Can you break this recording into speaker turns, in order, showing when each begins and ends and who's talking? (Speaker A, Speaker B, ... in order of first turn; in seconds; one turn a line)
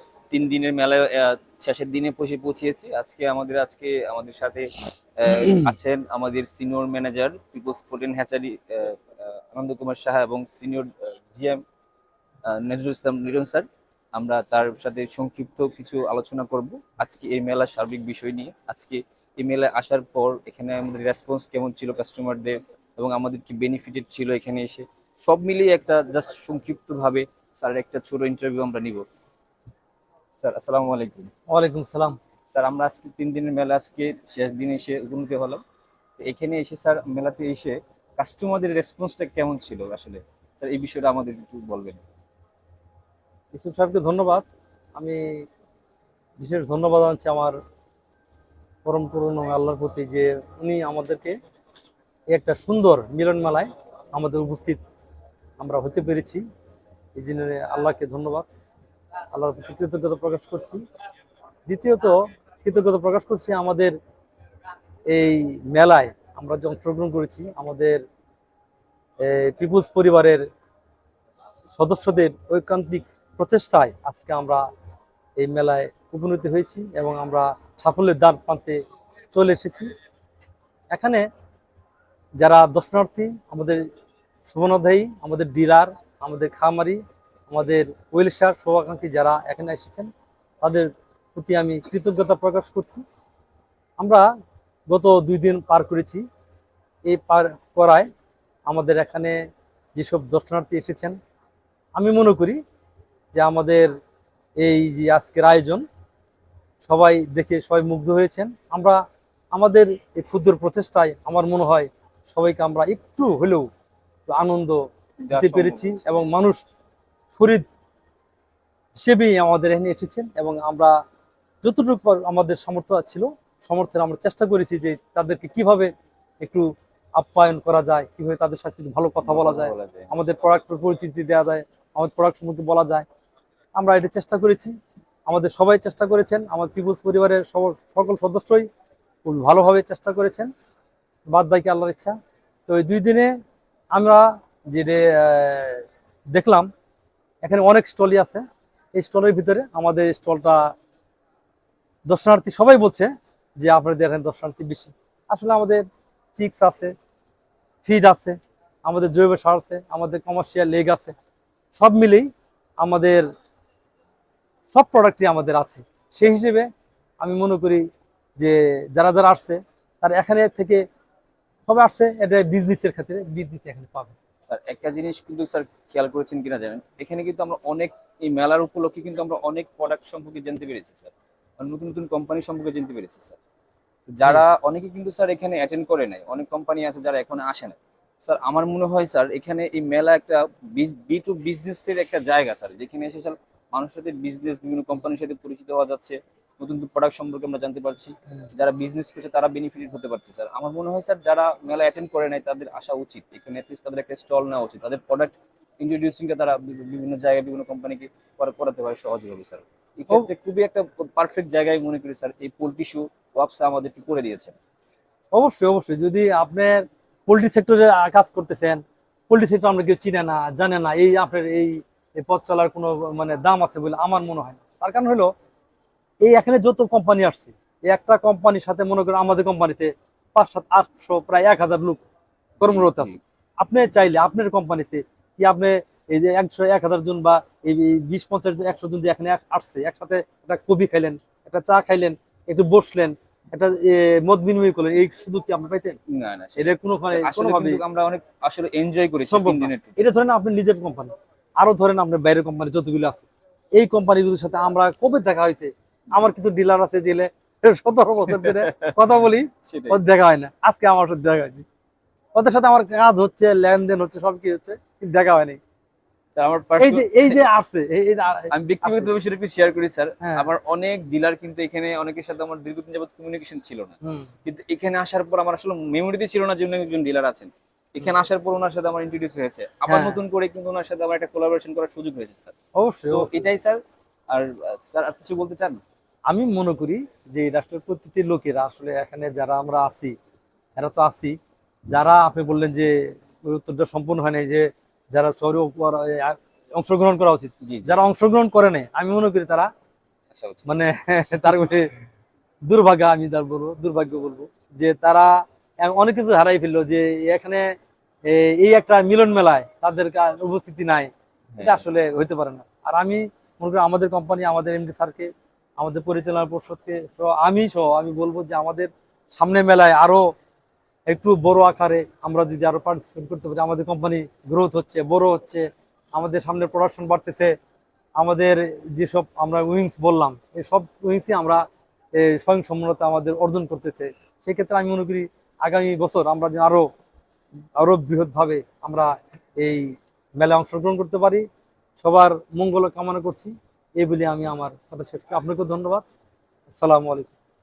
Speaker A: 0.3-11.6
Speaker A: 12.5-29.0
Speaker A: 30.4-31.3
Speaker B: 31.5-32.2
Speaker A: 32.5-35.6
Speaker A: 36.2-42.0
Speaker B: 43.5-45.5
Speaker B: 46.4-47.5
Speaker B: 48.8-51.4
Speaker B: 52.3-54.8
Speaker B: 55.6-56.4
Speaker B: 57.1-58.5
Speaker B: 59.3-60.8
Speaker B: 61.7-63.9
Speaker B: 65.1-68.0
Speaker B: 69.2-70.4
Speaker B: 71.7-74.6
Speaker B: 75.4-78.8
Speaker B: 79.3-79.9
Speaker B: 80.9-81.2
Speaker B: 82.4-83.8
Speaker B: 84.5-90.1
Speaker B: 90.6-93.0
Speaker B: 94.0-94.3
Speaker B: 94.9-96.2
Speaker B: 97.0-98.1
Speaker B: 98.7-99.4
Speaker B: 99.9-101.2
Speaker B: 101.9-102.6
Speaker B: 103.3-103.9
Speaker B: 104.6-105.8
Speaker B: 106.8-109.0
Speaker B: 109.5-113.7
Speaker B: 114.3-114.8
Speaker A: 115.2-116.1
Speaker B: 115.3-116.6
Speaker B: 117.3-117.6
Speaker B: 119.0-120.9
Speaker B: 121.6-125.9
Speaker B: 126.4-133.1
Speaker A: 129.2-130.1
Speaker B: 133.8-134.7
Speaker B: 135.3-138.7
Speaker B: 139.2-140.5
Speaker B: 141.3-142.2
Speaker B: 142.7-143.3
Speaker B: 143.9-146.7
Speaker B: 147.4-148.4
Speaker B: 149.0-150.7
Speaker B: 152.1-153.1
Speaker B: 153.6-155.8
Speaker B: 156.3-156.9
Speaker B: 157.8-161.2
Speaker B: 161.7-162.3
Speaker B: 162.8-163.3
Speaker B: 164.7-166.7
Speaker B: 167.2-167.8
Speaker B: 168.4-170.8
Speaker B: 171.7-174.2
Speaker A: 174.4-183.4
Speaker A: 184.1-214.6
Speaker B: 215.3-225.3
Speaker B: 226.2-232.0
Speaker B: 232.6-246.0
Speaker A: 232.7-233.2
Speaker A: 246.1-250.1
Speaker B: 246.6-247.8
Speaker B: 249.3-261.7
Speaker A: 258.3-259.0
Speaker A: 259.6-260.0
Speaker B: 262.4-265.6
Speaker A: 266.4-267.4
Speaker B: 266.8-269.1
Speaker A: 268.5-282.5
Speaker B: 270.2-270.5
Speaker B: 274.0-274.3
Speaker B: 279.9-280.2
Speaker B: 282.8-283.5
Speaker A: 283.1-285.8
Speaker B: 286.3-290.1
Speaker B: 290.8-291.4
Speaker B: 291.9-299.7
Speaker A: 297.6-297.9
Speaker A: 300.3-300.7
Speaker B: 300.7-301.9
Speaker B: 302.6-307.7
Speaker B: 308.3-311.1
Speaker A: 311.6-311.9
Speaker B: 311.6-320.2
Speaker B: 321.1-327.5
Speaker B: 328.2-331.6
Speaker B: 332.1-336.9
Speaker B: 337.8-341.4
Speaker B: 342.0-346.1
Speaker B: 346.7-347.3